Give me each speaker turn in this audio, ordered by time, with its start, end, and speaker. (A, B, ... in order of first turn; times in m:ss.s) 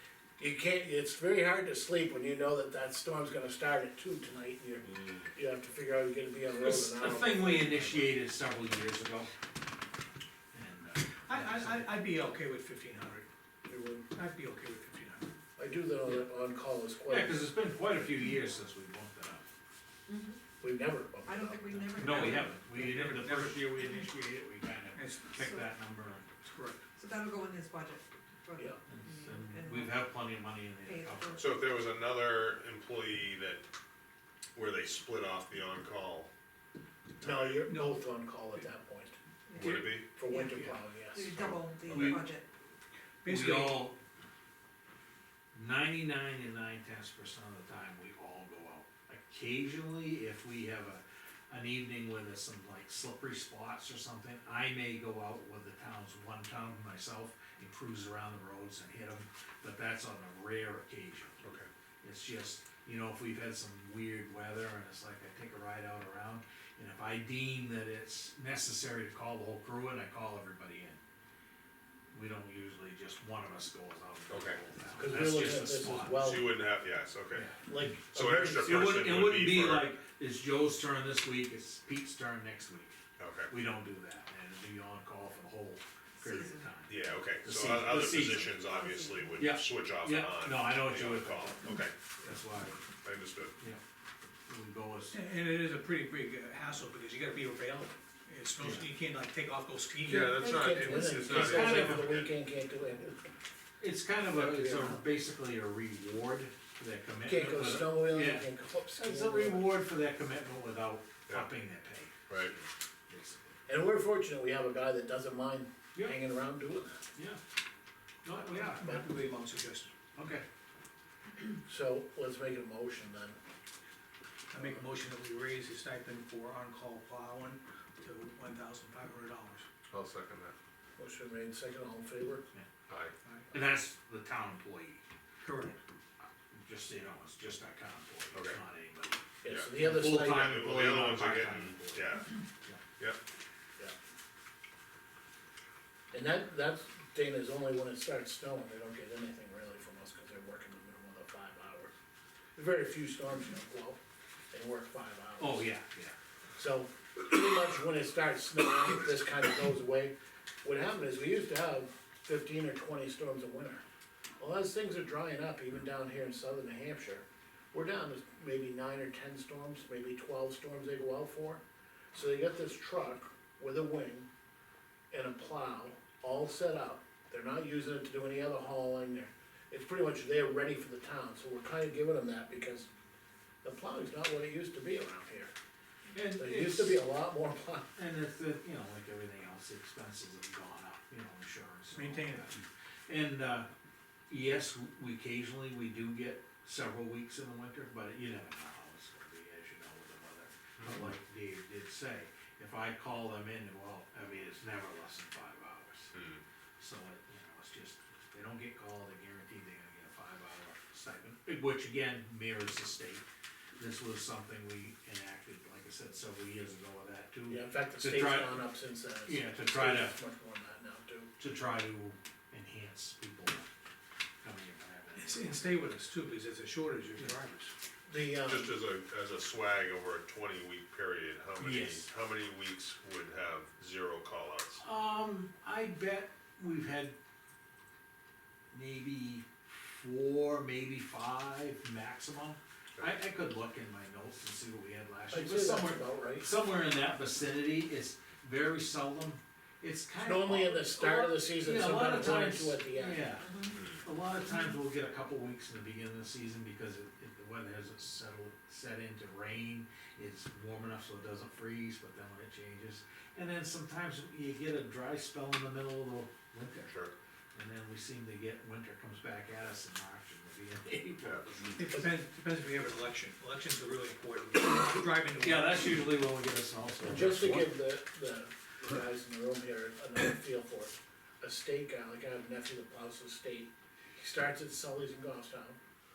0:00.4-0:08.1 A
0:06.5-0:09.3 B
0:10.5-0:11.9 B
0:11.3-0:13.3 C
0:13.7-0:14.1 A
0:14.1-0:15.3 C
0:15.6-0:17.5 A
0:17.1-0:19.5 B
0:20.1-0:20.4 D
0:20.6-0:22.2 A
0:21.2-0:22.6 D
0:22.0-0:26.3 B
0:22.1-0:23.7 C
0:25.0-0:25.4 C
0:25.4-0:25.7 D
0:26.4-0:26.9 C
0:27.0-0:30.0 D
0:28.9-0:31.4 B
0:30.8-0:31.4 D
0:31.4-0:33.6 E
0:34.6-0:36.3 E
0:37.2-0:37.6 E
0:37.2-0:41.3 A
0:37.7-0:38.1 C
0:39.5-0:40.5 D
0:39.5-0:40.1 E
0:41.1-0:42.4 D
0:41.3-0:42.2 E
0:41.9-0:42.2 B
0:43.2-0:43.9 C
0:43.2-0:44.0 B
0:45.5-1:01.4 B
1:01.4-1:01.7 E
1:02.0-1:11.0 B
1:12.1-1:16.3 B
1:14.3-1:14.6 E
1:15.0-1:16.6 A
1:16.2-1:17.5 E
1:17.3-1:17.7 B
1:17.7-1:18.7 A
1:18.1-1:19.9 E
1:18.3-1:23.0 B
1:23.2-1:23.5 E
1:23.5-1:28.6 B
1:26.9-1:32.0 E
1:28.7-1:29.5 D
1:29.4-1:32.8 B
1:33.0-1:33.6 E
1:34.5-1:35.2 B
1:35.1-1:40.4 C
1:40.0-1:43.2 A
1:40.1-1:42.3 E
1:41.2-1:42.2 B
1:43.8-1:53.5 B
1:44.3-1:45.0 A
1:47.2-1:49.8 A
1:53.7-1:57.1 A
1:57.2-1:57.4 B
1:58.2-1:59.0 B
1:58.8-1:59.9 C
2:00.2-2:00.4 B
2:01.7-2:03.4 A
2:04.5-2:09.6 C
2:09.9-2:10.5 E
2:11.0-2:12.4 A
2:12.9-2:13.1 E
2:13.5-2:15.0 B
2:15.4-2:15.8 C
2:16.5-2:19.2 B
2:18.3-2:18.6 E
2:19.4-2:20.6 A
2:19.5-2:22.4 E
2:19.8-2:22.2 B
2:26.1-2:31.9 A
2:32.6-2:34.0 A
2:34.5-2:35.7 A
2:35.4-2:36.2 B
2:36.6-2:43.8 A
2:44.4-2:51.6 A
2:52.1-2:54.3 A
2:55.1-3:02.9 A
3:03.6-3:05.5 A
3:06.1-3:07.1 B
3:06.3-3:07.9 A
3:08.0-3:13.7 B
3:11.9-3:12.6 C
3:14.3-3:26.1 B
3:26.1-3:26.4 E
3:26.8-3:33.2 B
3:33.8-3:38.7 B
3:37.5-3:41.3 A
3:39.2-3:40.2 B
3:41.4-3:43.7 B
3:44.4-3:45.7 B
3:45.2-3:47.7 C
3:48.1-3:48.8 A
3:48.4-3:54.8 E
3:51.6-3:52.1 B
3:54.8-3:57.1 B
3:58.7-3:59.4 B
4:00.0-4:26.9 B
4:05.3-4:06.5 A
4:10.2-4:13.4 A
4:13.4-4:13.7 D
4:26.8-4:27.1 E
4:27.6-4:31.8 B
4:31.2-4:31.7 E
4:31.7-4:36.0 C
4:35.4-4:37.7 B
4:37.1-4:45.8 A